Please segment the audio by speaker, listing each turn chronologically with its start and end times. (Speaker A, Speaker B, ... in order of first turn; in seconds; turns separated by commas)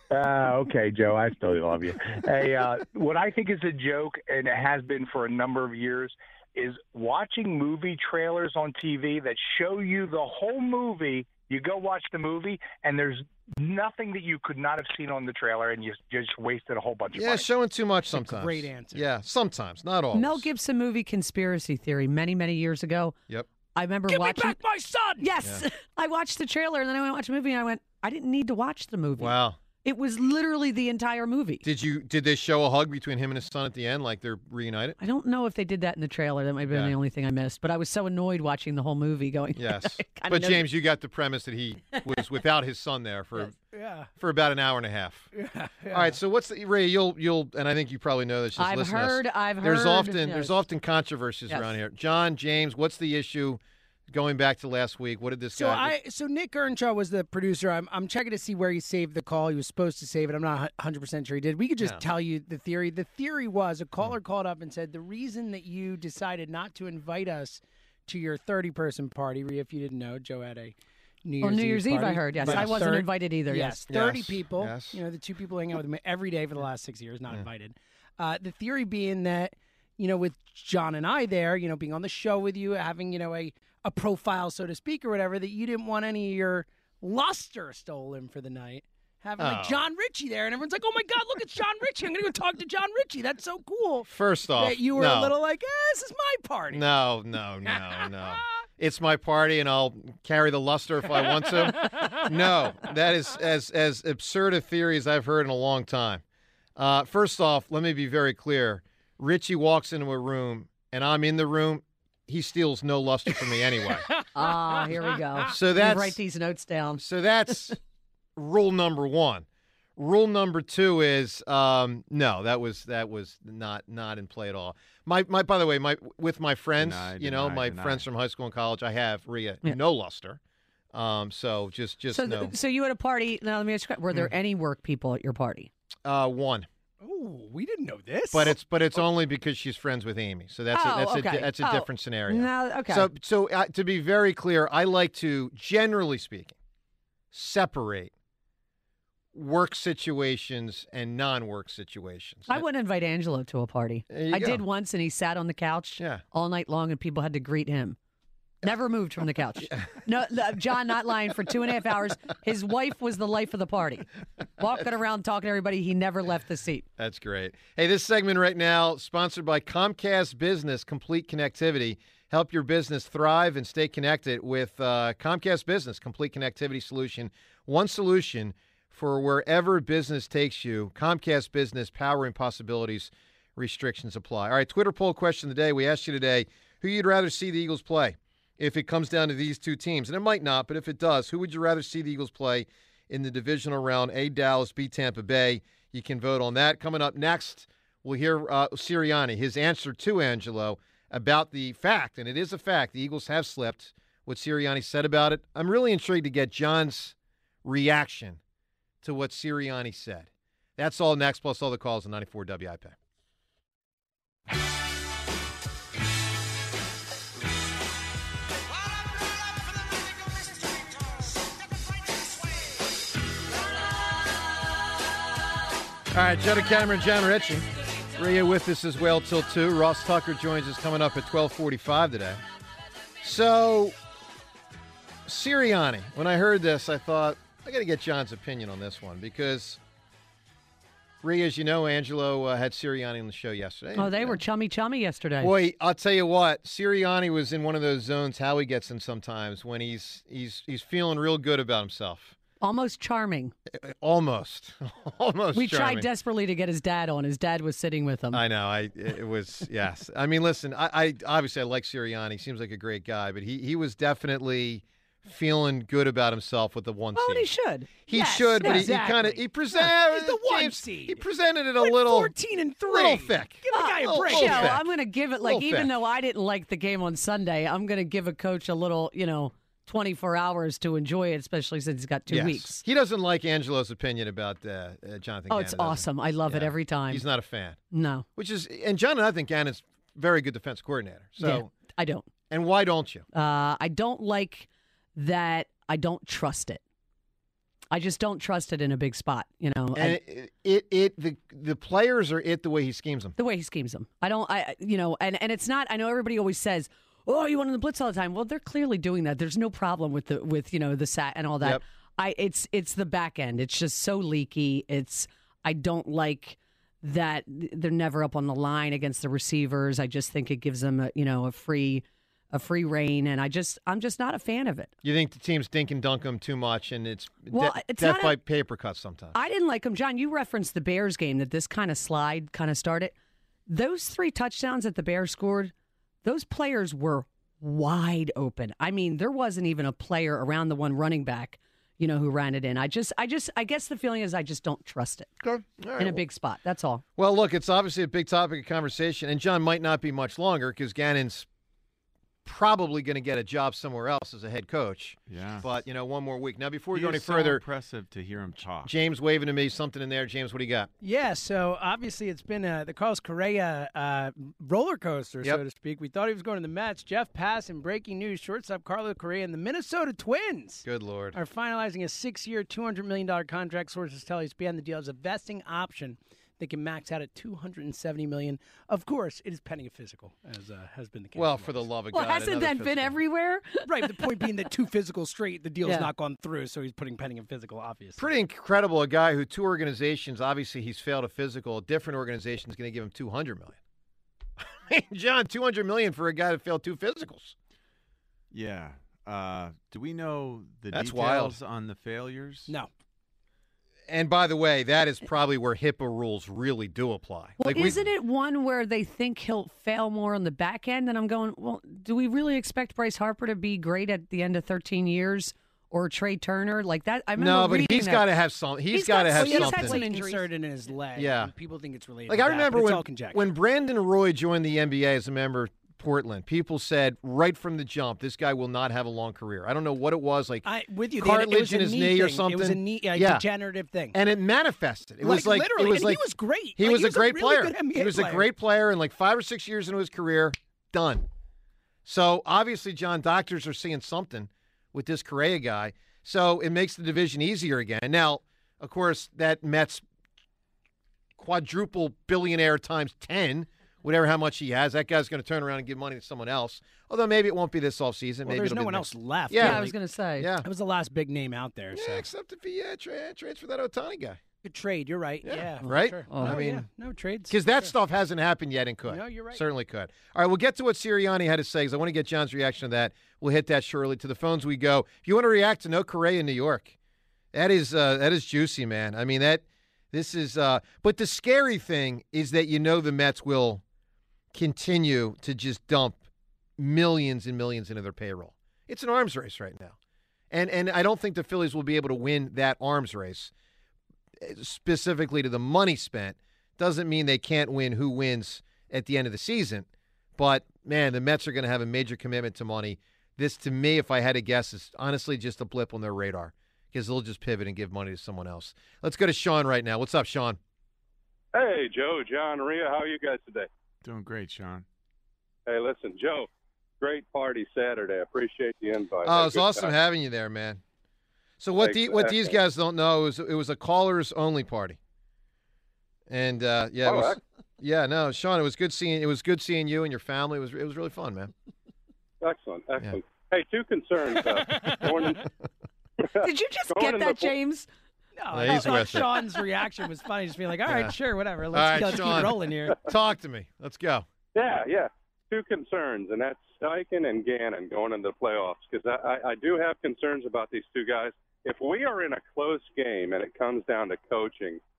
Speaker A: 0.1-17.5, Speaker B: 17.1-20.5, Speaker C: 18.1-19.1, Speaker D: 20.1-23.2, Speaker D: 23.7-24.6, Speaker C: 24.1-25.3, Speaker D: 25.2-31.6, Speaker B: 29.2-29.6, Speaker B: 31.6-35.0, Speaker D: 35.0-40.6, Speaker B: 36.7-37.0, Speaker B: 39.6-43.6, Speaker C: 43.5-44.1, Speaker B: 44.2-45.3, Speaker C: 45.3-46.2, Speaker B: 45.9-55.9, Speaker D: 48.6-50.6, Speaker D: 51.5-51.8, Speaker C: 55.5-96.8, Speaker D: 71.4-73.8, Speaker B: 72.4-72.8, Speaker B: 73.9-75.0, Speaker B: 89.4-89.8, Speaker B: 94.1-95.3, Speaker B: 96.7-106.2, Speaker C: 97.7-98.1, Speaker C: 101.3-102.3, Speaker B: 106.8-114.1, Speaker D: 114.3-117.0, Speaker B: 115.5-116.2, Speaker B: 117.0-117.8, Speaker B: 118.4-119.5, Speaker B: 120.0-130.4, Speaker E: 126.8-128.1, Speaker B: 130.9-132.5, Speaker D: 132.1-135.7, Speaker B: 136.0-136.7, Speaker C: 137.0-138.6, Speaker B: 138.3-146.6, Speaker D: 140.7-143.1, Speaker B: 147.3-148.1, Speaker B: 149.3-152.6, Speaker D: 152.5-158.0, Speaker B: 154.1-154.6, Speaker B: 156.0-156.2, Speaker D: 158.6-166.9, Speaker B: 167.0-208.4, Speaker B: 209.0-212.9, Speaker B: 226.1-232.4, Speaker B: 233.2-234.0, Speaker B: 235.3-239.8, Speaker B: 241.2-244.4, Speaker D: 244.0-245.5, Speaker B: 245.4-252.4, Speaker D: 252.6-253.5, Speaker B: 253.7-256.1, Speaker D: 255.5-258.4, Speaker B: 258.3-267.5, Speaker D: 267.1-268.9, Speaker B: 268.1-272.3, Speaker C: 268.1-271.2, Speaker C: 271.8-274.8, Speaker B: 272.9-274.8, Speaker D: 273.7-282.8, Speaker B: 275.4-275.9, Speaker B: 282.3-287.8, Speaker D: 285.5-287.2, Speaker D: 287.9-288.3, Speaker B: 288.4-291.7, Speaker D: 291.4-292.3, Speaker B: 292.5-293.3, Speaker D: 293.3-296.8, Speaker D: 297.9-300.2, Speaker B: 300.0-303.4, Speaker D: 303.4-324.9, Speaker B: 325.0-329.4, Speaker D: 327.5-328.4, Speaker D: 329.3-333.1, Speaker D: 333.7-335.7, Speaker D: 336.2-345.3, Speaker B: 345.4-346.2, Speaker D: 346.0-347.0, Speaker B: 347.2-351.5, Speaker B: 352.4-357.6, Speaker E: 355.3-355.7, Speaker E: 356.9-358.9, Speaker B: 358.8-360.9, Speaker C: 361.0-381.9, Speaker B: 370.9-371.4, Speaker B: 381.4-383.2, Speaker D: 382.1-384.2, Speaker C: 383.9-388.3, Speaker D: 385.8-386.1, Speaker B: 388.2-393.8, Speaker B: 394.6-397.6, Speaker E: 398.5-402.7, Speaker B: 400.9-401.6, Speaker B: 404.1-408.1, Speaker D: 407.6-418.3, Speaker B: 417.4-420.0, Speaker D: 418.9-420.5, Speaker C: 419.4-423.5, Speaker B: 421.1-421.5, Speaker B: 422.3-433.4, Speaker C: 430.6-434.2, Speaker B: 434.1-436.2, Speaker C: 435.2-438.5, Speaker B: 436.8-441.3, Speaker B: 442.1-450.0, Speaker B: 451.4-459.8, Speaker C: 458.5-460.0, Speaker D: 459.6-460.5, Speaker B: 460.4-460.7, Speaker C: 460.6-462.3, Speaker B: 461.9-464.4, Speaker C: 464.6-467.9, Speaker B: 465.4-466.9, Speaker D: 466.3-466.6, Speaker B: 467.5-476.9, Speaker C: 469.1-469.6, Speaker B: 477.5-483.8, Speaker B: 484.5-486.2, Speaker B: 486.8-489.9, Speaker B: 490.5-493.5, Speaker B: 494.4-510.6, Speaker F: 511.5-513.7, Speaker E: 514.0-514.9, Speaker F: 515.7-516.5, Speaker F: 517.0-520.0, Speaker B: 519.2-520.8, Speaker B: 521.6-525.0, Speaker F: 521.8-522.6, Speaker B: 526.3-531.5, Speaker F: 527.0-527.4, Speaker F: 532.4-535.4, Speaker F: 536.2-537.5, Speaker D: 536.4-537.9, Speaker C: 538.4-543.0, Speaker B: 538.5-539.4, Speaker B: 540.9-541.1, Speaker B: 541.7-544.3, Speaker F: 544.5-554.8